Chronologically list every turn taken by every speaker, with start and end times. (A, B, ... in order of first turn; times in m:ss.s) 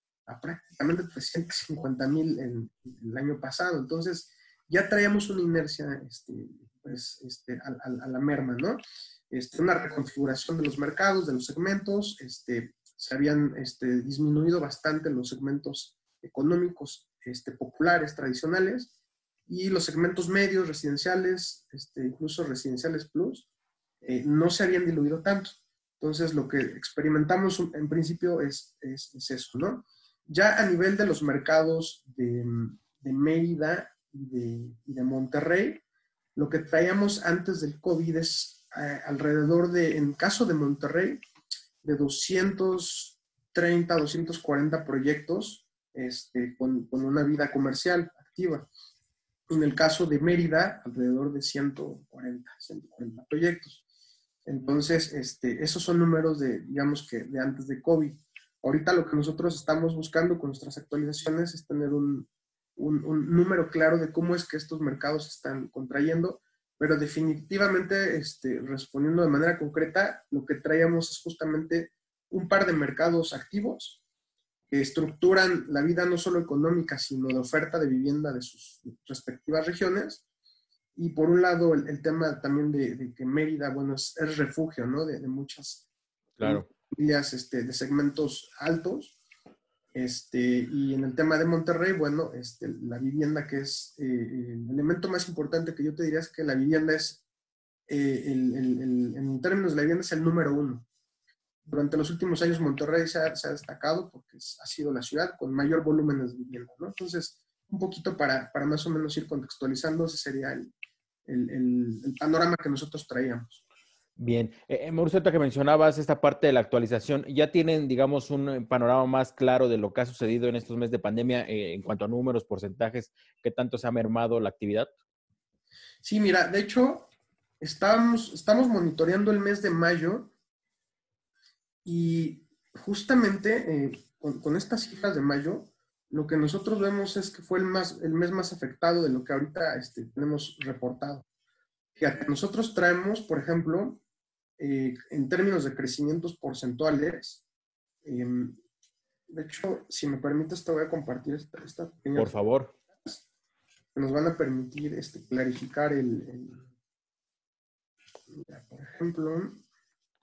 0:00.3-0:18.9 A
0:19.5-0:23.5 A
0:24.0-0:35.8 A
0:36.4-0:41.2 A
0:41.8-0:48.7 A
0:49.5-0:53.8 A
0:54.5-1:14.0 A
1:14.7-1:20.2 A
1:21.0-1:25.9 A
1:26.4-1:26.7 B
1:26.4-1:29.2 A
1:29.9-1:37.2 A
1:37.9-1:40.9 A
1:41.7-1:50.7 A
1:51.3-1:53.6 A
1:54.2-2:04.9 B
2:06.0-2:10.3 A
2:11.8-2:21.2 A
2:22.0-2:24.0 A
2:24.6-2:27.4 A
2:28.0-2:28.6 A
2:29.3-2:32.4 A
2:32.2-2:32.7 B
2:34.0-2:36.7 A
2:38.3-2:39.6 A